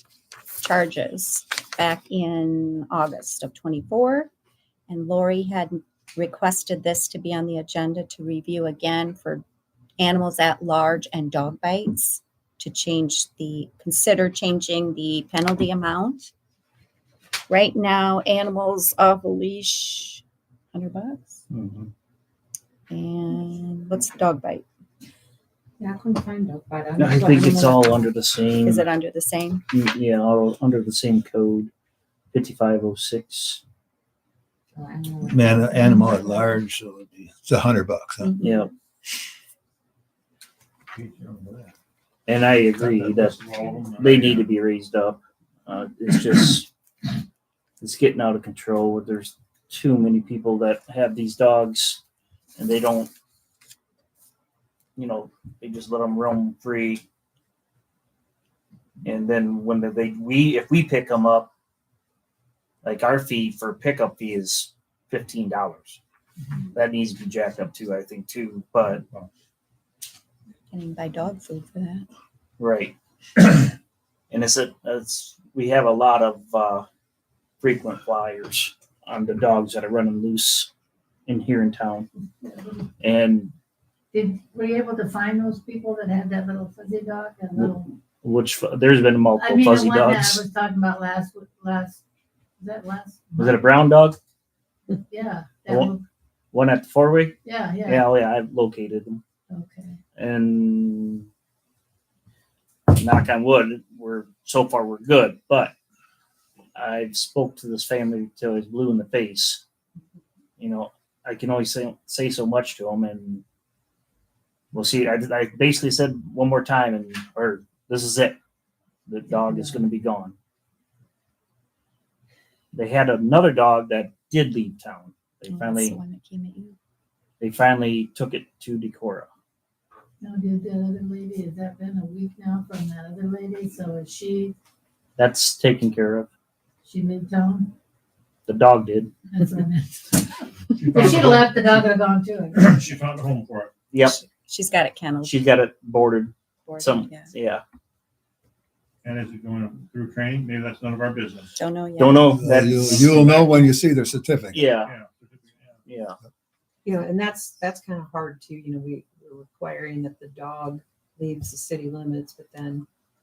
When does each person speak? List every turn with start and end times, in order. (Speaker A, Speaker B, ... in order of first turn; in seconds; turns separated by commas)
Speaker A: 0.6-4.3, Speaker A: 4.9-9.4, Speaker A: 10.0-16.3, Speaker A: 17.5-20.2, Speaker A: 20.7-21.4, Speaker B: 21.5-21.9, Speaker A: 22.9-24.6, Speaker C: 25.8-28.0, Speaker D: 27.0-28.9, Speaker A: 28.6-29.6, Speaker D: 29.7-31.7, Speaker D: 32.3-33.6, Speaker C: 34.7-36.6, Speaker E: 35.3-38.3, Speaker A: 38.2-38.6, Speaker D: 38.4-38.7, Speaker B: 40.9-41.7, Speaker D: 42.3-43.4, Speaker B: 42.8-44.5, Speaker D: 44.0-46.7, Speaker D: 47.8-52.0, Speaker D: 52.6-53.1, Speaker D: 55.0-57.0, Speaker D: 59.0-61.5, Speaker D: 62.8-66.0, Speaker D: 66.7-69.0, Speaker B: 69.0-69.3, Speaker A: 70.7-72.1, Speaker D: 72.6-73.7, Speaker D: 74.3-76.8, Speaker D: 77.6-80.7, Speaker D: 81.3-82.1, Speaker F: 82.4-82.8, Speaker D: 83.0-83.5, Speaker F: 84.1-87.8, Speaker D: 87.6-90.4, Speaker F: 89.4-92.0, Speaker F: 92.6-93.6, Speaker D: 93.4-94.2, Speaker F: 95.1-96.0, Speaker D: 96.5-99.2, Speaker F: 97.5-98.0, Speaker F: 99.5-100.0, Speaker D: 100.2-101.3, Speaker D: 102.9-105.7, Speaker D: 106.8-109.6, Speaker D: 110.6-113.4, Speaker D: 114.7-118.4, Speaker D: 119.1-120.3, Speaker F: 119.3-119.7, Speaker D: 122.7-126.0, Speaker A: 125.5-126.8, Speaker D: 127.4-129.3, Speaker F: 130.2-134.6, Speaker D: 135.2-136.3, Speaker F: 136.9-137.7, Speaker D: 138.5-139.1, Speaker F: 139.3-140.3, Speaker B: 140.8-141.5, Speaker F: 140.9-142.6, Speaker B: 142.6-143.7, Speaker D: 143.9-144.2, Speaker A: 144.0-145.4, Speaker D: 145.3-147.6, Speaker A: 146.7-147.3, Speaker B: 149.0-151.5, Speaker A: 151.6-152.3, Speaker D: 152.0-153.1, Speaker E: 152.3-154.7, Speaker B: 152.7-153.6, Speaker D: 154.5-154.9, Speaker B: 154.6-155.8, Speaker D: 155.9-156.2, Speaker G: 156.8-162.9